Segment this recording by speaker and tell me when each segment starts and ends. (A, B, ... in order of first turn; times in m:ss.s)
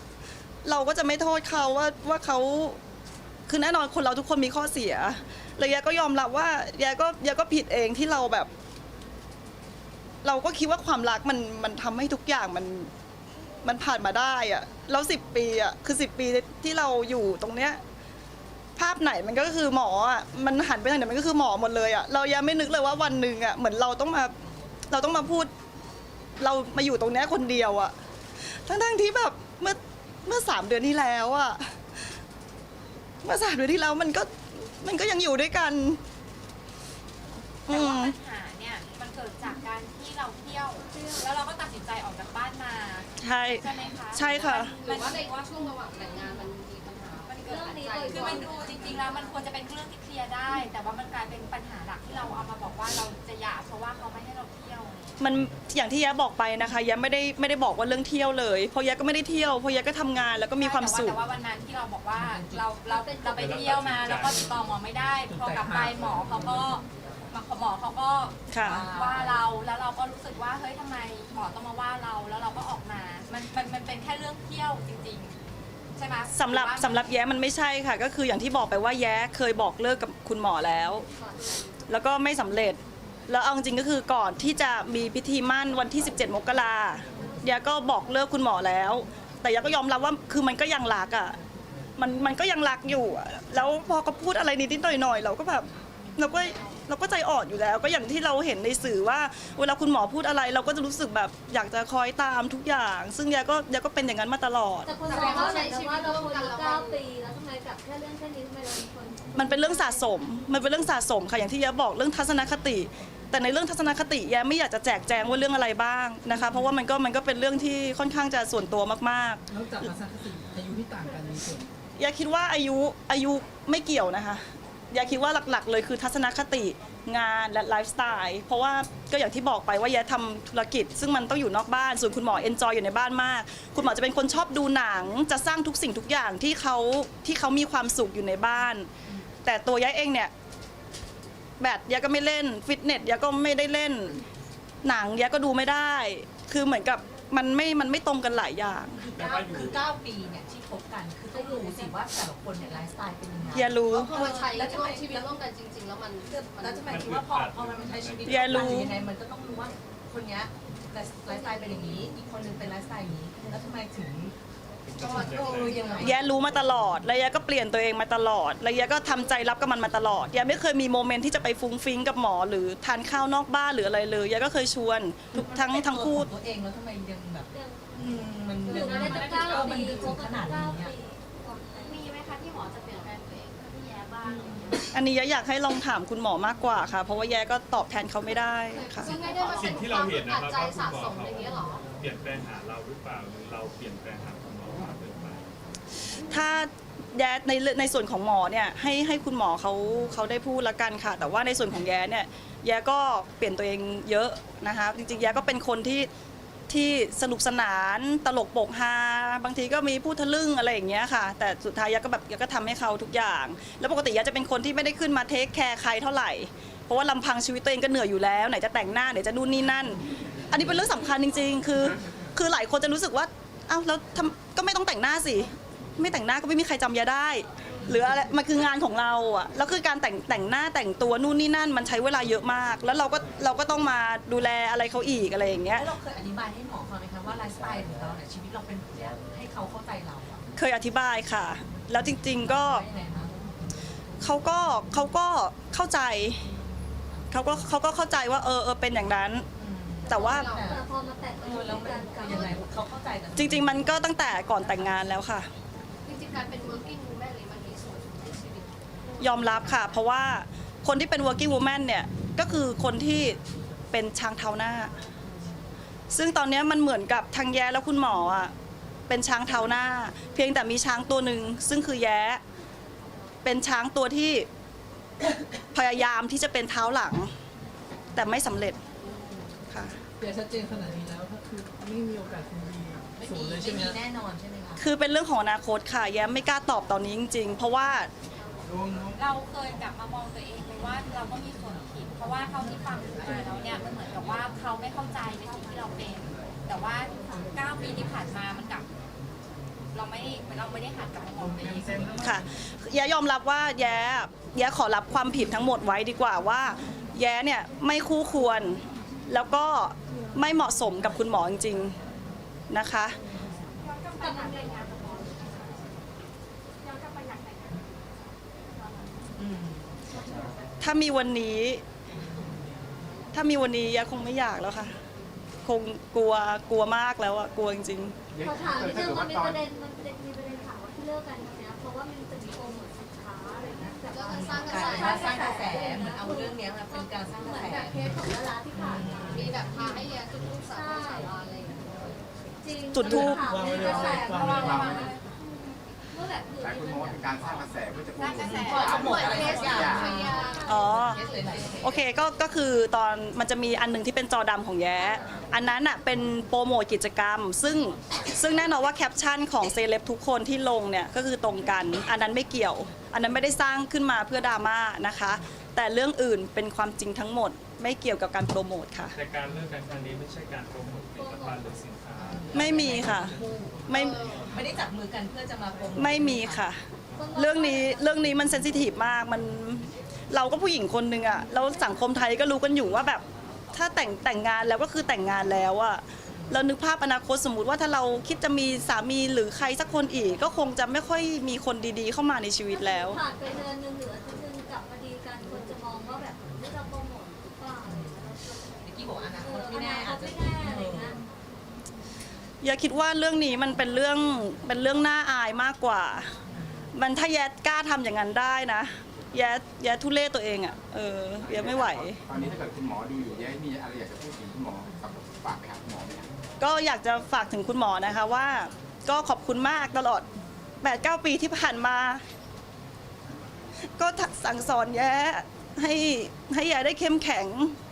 0:00.6-0:02.8 A
0:03.5-0:08.5 A
0:10.2-0:12.9 A
0:13.6-0:17.8 A
0:18.8-0:24.3 A
0:24.9-0:25.5 A
0:26.4-0:27.9 A
0:28.5-0:31.7 A
0:33.2-0:36.0 A
0:37.7-0:38.1 A
0:37.7-0:45.5 B
0:43.2-0:44.7 A
0:44.4-0:49.2 C
0:46.1-0:46.4 B
0:47.3-0:55.2 B
0:47.4-0:49.0 D
0:55.2-1:01.2 A
1:00.6-1:15.4 B
1:02.8-1:04.2 D
1:03.2-1:04.6 E
1:05.3-1:06.8 F
1:08.5-1:08.8 A
1:08.6-1:09.4 G
1:15.9-1:17.1 B
1:16.3-1:21.0 A
1:21.9-1:31.4 A
1:32.0-1:45.0 A
1:44.8-1:50.4 D
1:45.0-1:47.0 C
1:49.3-1:59.4 A
1:59.5-2:01.7 F
2:02.0-2:18.9 A
2:19.4-2:20.3 A
2:21.6-2:24.2 A
2:24.8-2:29.0 A
2:29.0-2:35.4 G
2:29.1-2:29.9 E
2:31.3-2:32.0 D
2:33.5-2:34.4 A
2:34.0-2:37.0 C
2:36.3-2:44.3 G
2:36.8-2:38.9 E
2:38.2-2:38.9 A
2:41.3-2:41.9 D
2:44.8-2:46.0 E
2:45.0-2:46.1 C
2:45.0-2:46.2 G
2:46.0-2:56.3 A
2:55.3-3:00.9 G
2:57.5-2:58.1 D
2:58.6-3:02.0 D
2:59.1-3:00.0 B
3:01.8-3:04.8 B
3:01.8-3:03.4 C
3:04.3-3:04.8 G
3:04.9-3:09.1 A
3:08.7-3:11.9 C
3:09.0-3:10.0 B
3:09.1-3:15.5 E
3:16.3-3:26.1 A
3:26.7-3:55.9 A
3:55.6-4:00.4 G
4:00.6-4:02.8 A
4:02.2-4:03.9 G
4:04.2-4:06.5 A
4:07.3-4:09.4 A
4:09.6-4:10.8 G
4:10.1-4:10.5 A
4:10.1-4:10.8 C
4:10.5-4:12.6 D
4:11.4-4:15.1 G
4:12.2-4:12.5 C
4:13.4-4:15.5 A
4:16.0-4:19.7 C
4:19.2-4:23.4 A
4:19.5-4:20.0 G
4:23.9-4:24.9 A
4:26.1-4:28.5 A
4:29.1-4:32.4 A
4:33.4-4:34.5 A
4:35.7-4:37.3 A
4:38.1-4:38.8 A
4:39.7-4:40.0 A
4:40.2-4:44.0 F
4:43.1-4:44.8 G
4:44.8-4:48.1 A
4:48.6-4:49.2 H
4:49.1-4:58.9 B
4:59.9-5:02.1 B
5:01.4-5:02.4 F
5:02.2-5:12.0 A
5:12.7-5:13.2 A
5:14.0-5:15.5 D
5:19.4-5:20.5 G
5:20.8-5:21.8 A
5:22.1-5:22.9 G
5:23.3-5:24.9 A
5:25.6-5:28.1 A
5:28.3-5:29.6 H
5:28.4-5:41.3 D
5:34.1-5:35.7 C
5:34.3-5:39.6 G
5:39.3-5:42.2 C
5:42.6-5:47.2 D
5:42.9-5:43.7 A
5:43.0-5:45.0 F
5:43.7-5:45.3 B
5:44.5-5:45.1 H
5:46.6-5:50.1 H
5:48.2-5:50.4 B
5:48.3-5:52.0 G
5:48.8-5:51.8 C
5:48.9-5:51.4 D
5:50.6-5:51.2 A
5:51.8-6:09.2 A
5:55.0-5:55.3 D
6:09.1-6:13.4 E
6:11.2-6:11.8 D
6:12.2-6:16.6 G
6:12.5-6:14.2 A
6:13.9-6:14.7 C
6:16.0-6:16.8 A
6:17.2-6:18.4 D
6:17.3-6:23.2 A
6:23.7-6:33.2 A
6:26.3-6:26.6 G
6:32.7-6:41.2 D
6:37.8-6:38.2 G
6:38.8-6:41.2 G
6:42.6-6:46.3 A
6:46.5-6:46.9 G
6:46.9-6:52.2 A
6:51.4-6:56.3 H
6:56.6-7:00.2 A
7:00.8-7:02.2 A
7:04.0-7:07.8 A